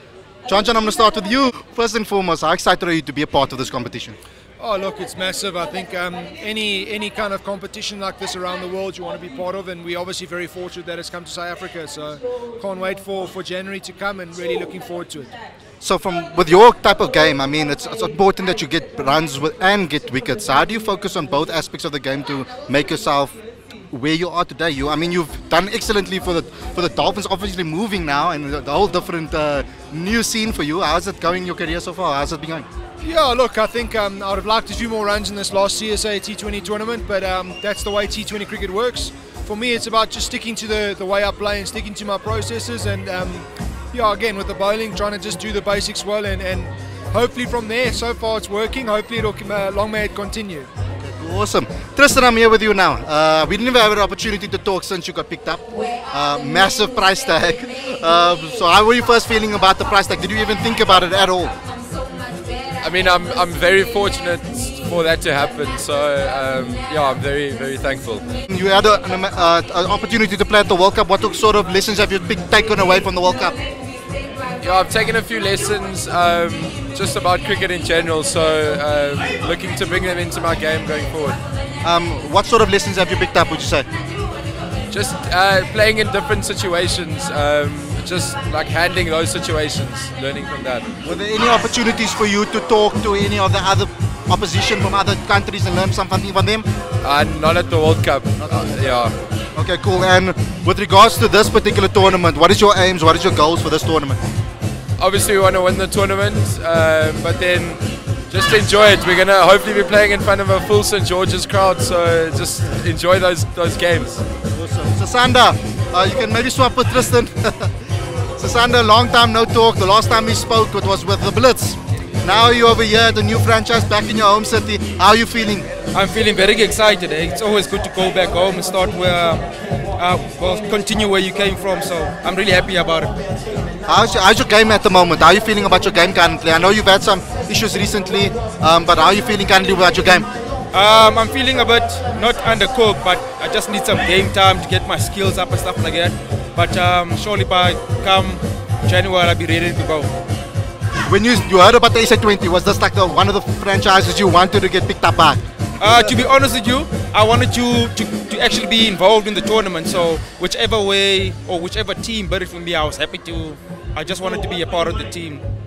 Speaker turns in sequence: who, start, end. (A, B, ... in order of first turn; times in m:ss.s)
0:00.5-0:04.2 A
0:04.6-0:15.4 B
0:15.8-0:23.4 A
0:23.9-0:32.7 A
0:33.0-0:50.7 B
0:51.0-1:01.5 A
1:02.8-1:08.2 C
1:08.5-1:13.6 A
1:14.6-1:21.4 C
1:21.8-1:23.9 A
1:24.9-1:30.9 C
1:31.0-1:36.7 A
1:37.0-1:39.1 C
1:38.4-1:38.8 A
1:39.6-1:44.2 A
1:45.0-1:54.2 C
1:54.5-1:57.7 A
1:58.4-2:05.7 A
2:05.9-2:13.2 D
2:13.9-2:20.3 A
2:20.7-2:30.1 D
2:31.1-2:35.4 A
2:35.8-2:45.4 D